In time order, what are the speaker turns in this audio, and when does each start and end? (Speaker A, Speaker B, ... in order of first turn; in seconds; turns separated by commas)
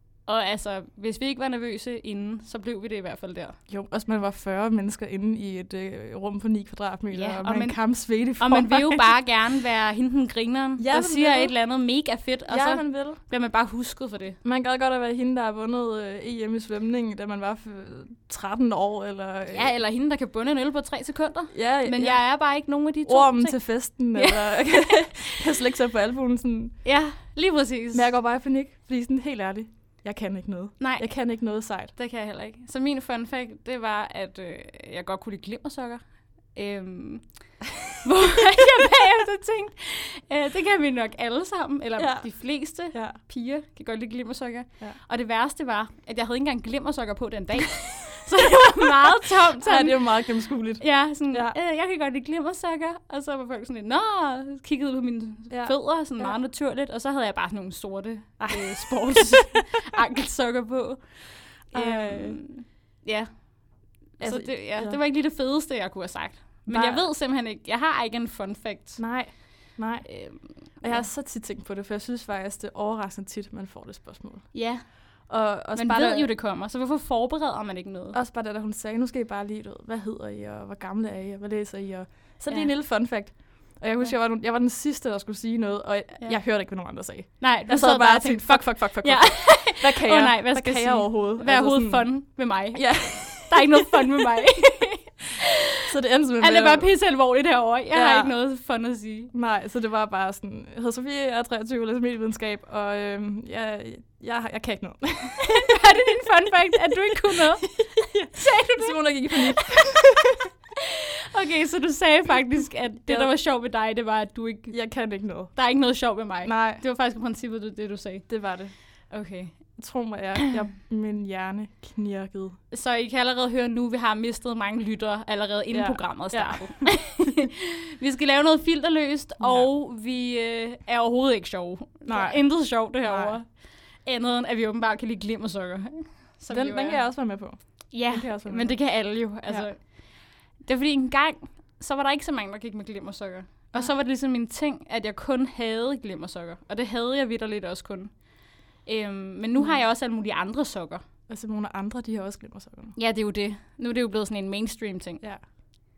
Speaker A: 0.3-3.6, Speaker B: 3.7-9.1, Speaker A: 7.1-14.4, Speaker B: 10.8-11.6, Speaker B: 12.5-13.2, Speaker B: 14.4-19.7, Speaker A: 19.5-24.8, Speaker B: 21.5-26.8, Speaker A: 26.8-28.1, Speaker B: 27.9-31.9, Speaker A: 30.8-50.2, Speaker B: 42.0-43.2, Speaker B: 49.6-51.5, Speaker A: 50.8-69.5, Speaker B: 55.5-56.4, Speaker B: 58.4-59.6, Speaker B: 61.7-62.4, Speaker B: 64.2-65.0, Speaker B: 66.7-67.1, Speaker B: 69.0-76.3, Speaker A: 70.0-71.1, Speaker A: 74.5-78.2, Speaker B: 78.1-93.6, Speaker A: 82.5-82.8, Speaker A: 86.2-86.7, Speaker A: 87.4-95.4, Speaker B: 95.8-97.0, Speaker A: 96.4-99.3, Speaker B: 97.9-98.4, Speaker B: 99.3-105.8, Speaker A: 105.6-109.9, Speaker B: 107.3-110.3, Speaker A: 111.3-119.8, Speaker B: 113.1-113.3, Speaker B: 114.7-116.8, Speaker B: 118.3-118.8, Speaker B: 119.8-122.6, Speaker A: 122.7-137.2, Speaker B: 125.7-127.2, Speaker B: 129.4-129.7, Speaker B: 132.1-133.4, Speaker B: 136.5-139.7, Speaker A: 137.9-151.0, Speaker B: 151.3-153.0, Speaker A: 152.9-155.3